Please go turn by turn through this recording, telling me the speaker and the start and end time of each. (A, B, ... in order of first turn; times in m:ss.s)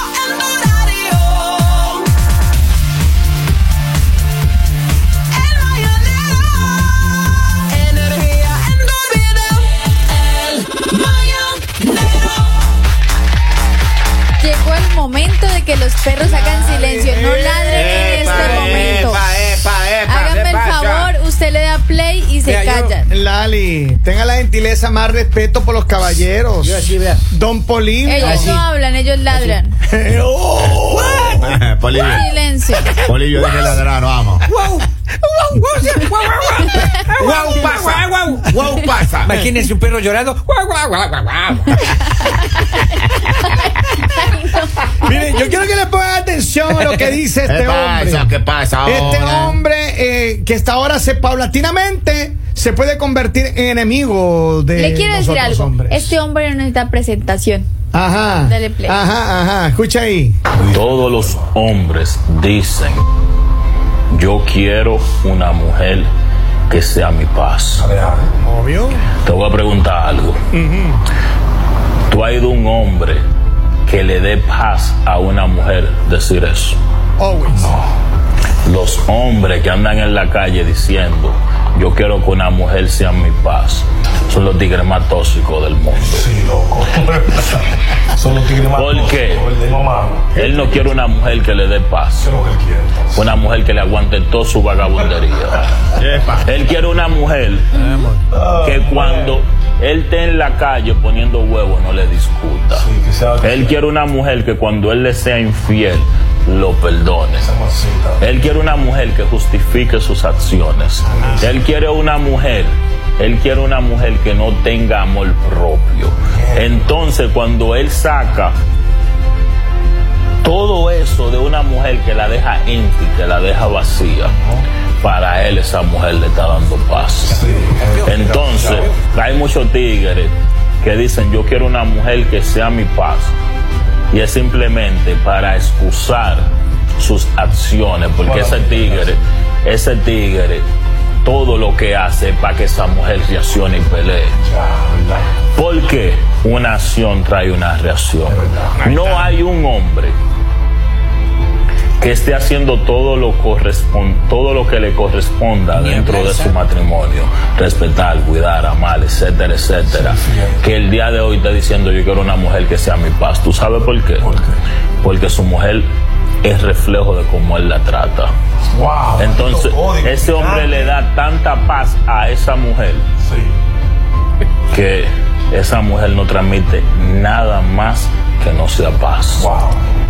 0:07.9-0:08.5 A
0:14.4-0:19.2 A
0:16.2-0:19.2 B
0:17.7-0:21.1 C
0:20.0-0:23.1 A
0:22.4-0:22.9 D
0:23.1-0:28.6 B
0:26.6-0:27.2 D
0:28.0-0:29.7 A
0:28.2-0:28.6 D
0:29.8-0:31.6 B
0:30.9-0:31.6 D
0:31.4-0:32.3 C
0:31.9-0:33.0 A
0:33.0-0:34.5 C
0:34.4-0:38.6 D
0:36.6-0:37.0 A
0:37.0-0:39.4 C
0:39.2-0:42.4 D
0:41.8-0:45.4 A
0:45.0-0:48.3 B
0:47.4-0:49.6 C
0:48.8-0:56.1 B
0:54.7-0:57.7 A
0:57.9-1:00.4 B
0:58.4-0:59.0 A
1:00.7-1:03.0 E
1:04.1-1:06.1 E
1:06.7-1:07.9 E
1:07.9-1:08.2 F
1:08.4-1:09.1 B
1:09.2-1:10.4 E
1:10.5-1:11.0 B
1:12.1-1:13.2 E
1:13.8-1:16.8 E
1:17.2-1:17.8 B
1:18.6-1:26.3 E
1:26.2-1:27.3 F
1:28.2-1:30.3 F
1:28.6-1:29.5 E
1:30.3-1:32.3 E
1:32.2-1:33.0 F
1:33.1-1:35.8 E
1:36.0-1:36.5 C
1:36.4-1:37.8 E
1:37.7-1:38.4 D
1:38.6-1:47.5 E
1:42.9-1:43.7 F
1:47.5-1:48.2 F
1:48.2-1:58.6 E
2:00.4-2:04.3 E
2:05.0-2:07.5 E
2:07.6-2:08.9 D
2:08.0-2:13.3 E
2:14.1-2:20.6 E
2:21.2-2:24.4 E
2:25.5-2:30.1 E
2:28.8-2:29.3 C
2:32.0-2:44.4 E
2:35.7-2:36.6 D
2:45.0-2:45.9 E
2:46.4-2:48.3 E
2:48.7-2:50.7 F
2:49.1-2:53.0 E
2:54.7-2:59.5 E